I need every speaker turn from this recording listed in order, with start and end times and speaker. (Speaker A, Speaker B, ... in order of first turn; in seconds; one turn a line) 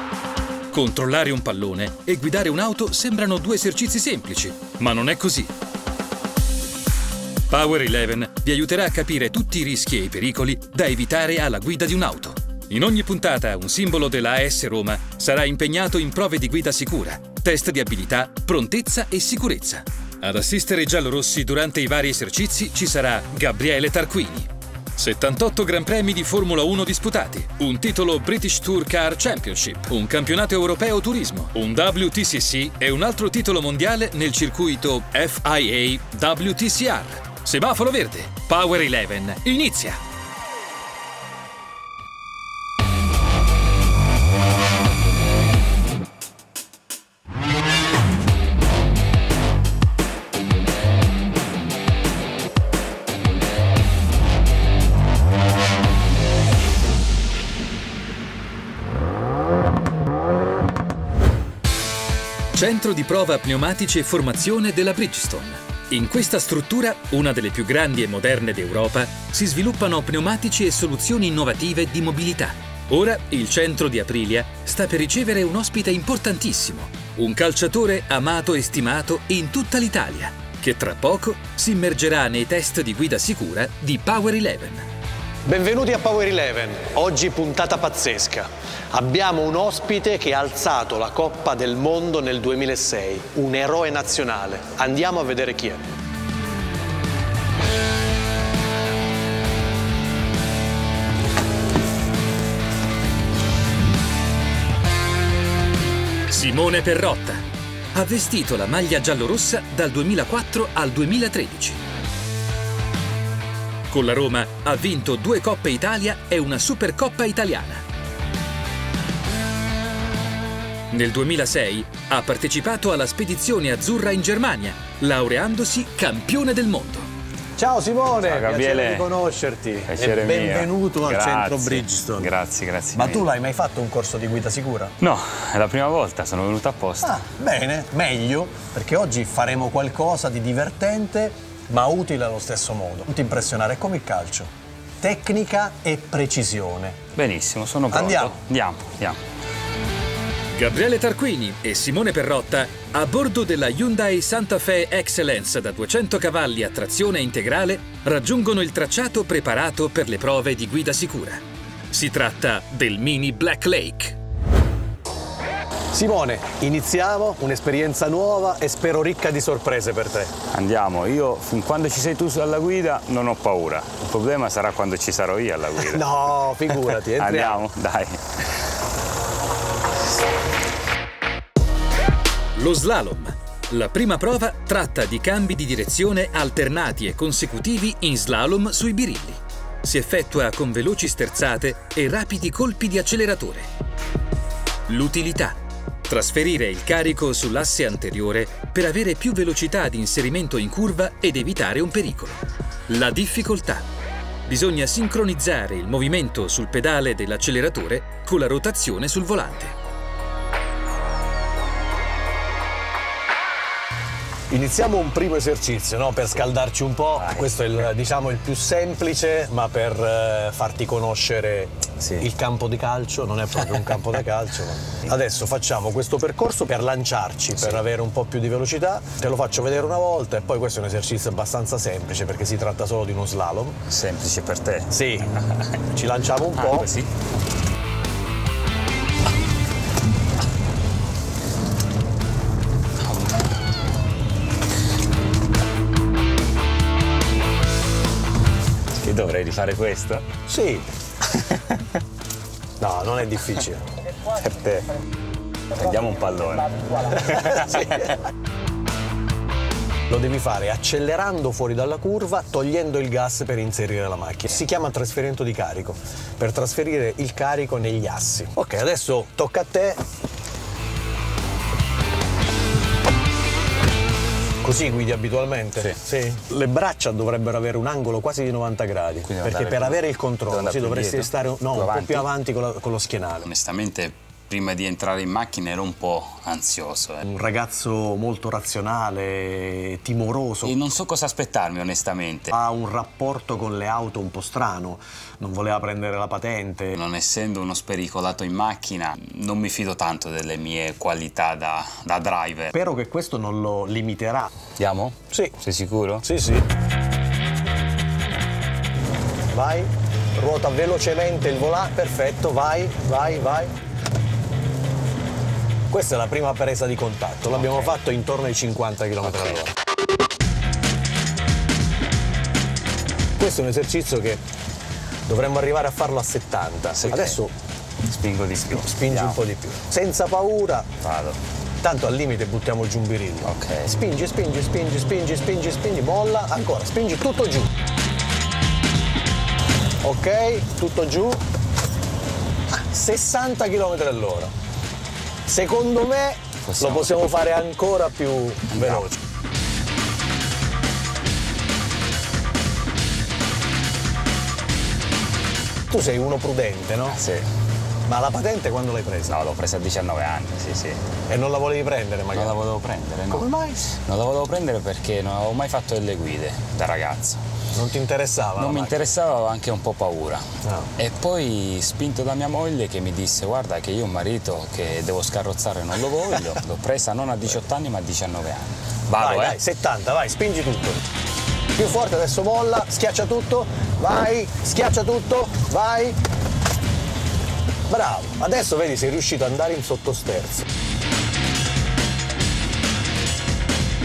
Speaker A: 0.7-5.5
Speaker A: 7.5-40.0
Speaker A: 62.5-84.9
Speaker B: 85.5-96.0
Speaker A: 106.3-111.8
Speaker A: 113.9-117.8
Speaker A: 120.9-127.1
Speaker B: 127.6-132.3
Speaker C: 128.2-129.1
Speaker C: 129.9-133.3
Speaker B: 132.9-134.9
Speaker C: 135.0-137.2
Speaker B: 137.0-147.0
Speaker C: 147.2-149.2
Speaker B: 147.9-148.4
Speaker A: 150.5-164.2
Speaker B: 165.9-170.4
Speaker C: 170.5-176.1
Speaker B: 175.8-177.6
Speaker C: 177.1-178.7
Speaker A: 182.6-193.7
Speaker A: 194.9-203.9
Speaker A: 204.5-209.8
Speaker B: 214.5-233.8
Speaker C: 217.2-217.6
Speaker C: 233.9-235.8
Speaker B: 234.9-235.3
Speaker B: 235.9-236.9
Speaker C: 236.6-237.1
Speaker C: 243.1-243.3
Speaker C: 248.9-250.2
Speaker B: 250.5-250.9
Speaker C: 251.3-252.0
Speaker B: 252.8-254.0
Speaker C: 254.2-254.9
Speaker C: 255.7-258.1
Speaker B: 256.7-258.2
Speaker B: 260.1-270.0
Speaker B: 274.6-283.5
Speaker C: 279.2-282.3
Speaker C: 283.4-287.2
Speaker B: 287.2-290.8
Speaker C: 290.6-292.6
Speaker B: 292.5-297.0
Speaker C: 296.9-302.7
Speaker B: 302.7-304.5
Speaker C: 304.8-306.2
Speaker B: 306.2-306.7
Speaker B: 309.5-313.8
Speaker B: 315.9-319.7
Speaker C: 317.6-317.9
Speaker C: 319.2-319.6
Speaker B: 323.4-324.4
Speaker B: 325.3-327.5
Speaker C: 326.9-327.4
Speaker C: 328.1-329.4
Speaker B: 328.7-330.9
Speaker C: 331.0-331.4
Speaker B: 331.8-337.7
Speaker C: 333.4-333.9
Speaker B: 340.0-341.4
Speaker B: 342.7-344.5
Speaker B: 345.5-349.2
Speaker C: 346.6-347.1
Speaker C: 348.7-349.1
Speaker B: 355.9-357.2
Speaker C: 357.1-357.5
Speaker B: 358.1-359.4
Speaker C: 359.3-361.0
Speaker B: 361.3-362.6
Speaker C: 362.3-367.4
Speaker B: 363.3-363.9
Speaker B: 367.7-369.2
Speaker C: 368.6-370.4
Speaker B: 370.6-370.9
Speaker C: 371.0-379.6
Speaker B: 379.2-381.0
Speaker B: 381.7-386.2
Speaker B: 387.9-390.7